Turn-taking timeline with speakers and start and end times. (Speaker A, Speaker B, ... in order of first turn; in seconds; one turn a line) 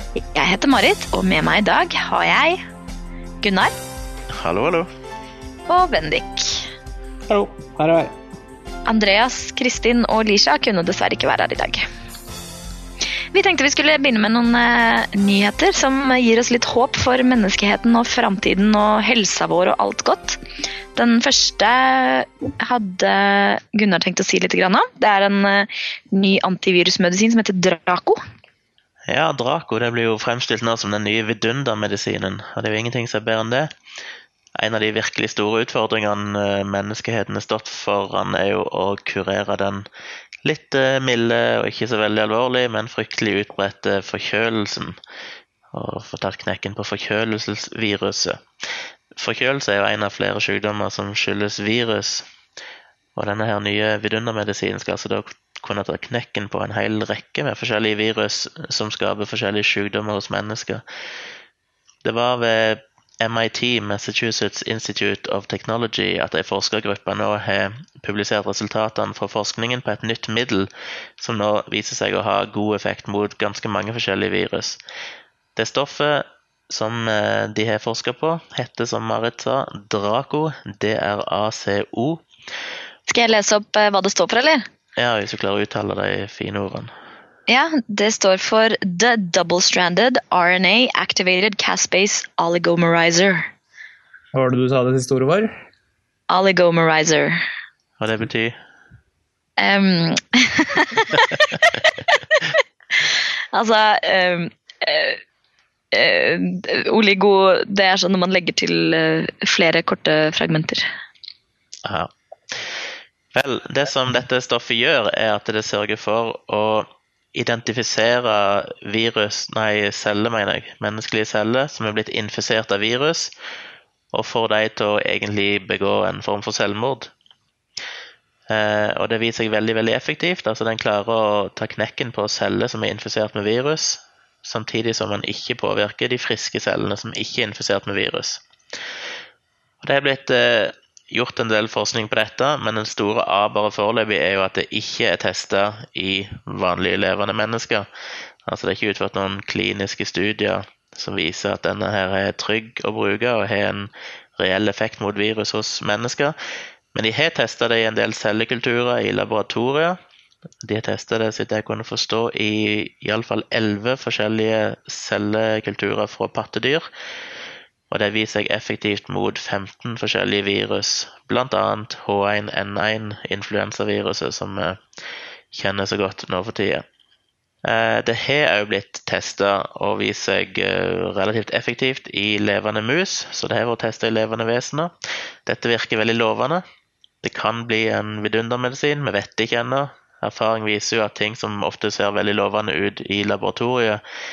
Speaker A: 0.1-2.6
Speaker A: 3.4-3.7
Speaker B: 4.3-4.9
Speaker A: 5.7-6.7
Speaker C: 7.3-8.1
Speaker A: 8.9-11.8
Speaker A: 13.3-20.4
Speaker A: 20.9-28.2
Speaker B: 29.1-33.7
Speaker B: 34.5-39.9
Speaker B: 40.4-45.0
Speaker B: 45.7-48.4
Speaker B: 49.1-52.3
Speaker B: 53.1-60.8
Speaker B: 62.0-74.8
Speaker B: 75.5-82.2
Speaker A: 83.1-84.6
Speaker B: 85.0-86.9
Speaker A: 87.5-93.5
Speaker C: 94.3-95.5
Speaker A: 96.3-97.4
Speaker B: 98.0-98.5
Speaker A: 99.6-102.5
Speaker A: 103.5-105.2
Speaker A: 105.9-110.8
Speaker B: 111.8-112.7
Speaker B: 113.3-123.3
Speaker B: 124.1-127.1
Speaker B: 128.5-138.4
Speaker B: 139.8-147.9
Speaker B: 148.4-156.3
Speaker B: 156.9-160.0
Speaker B: 160.6-166.9
Speaker B: 167.9-174.8
Speaker B: 175.5-176.8
Speaker B: 177.6-184.9
Speaker B: 185.4-186.6
Speaker B: 187.2-194.0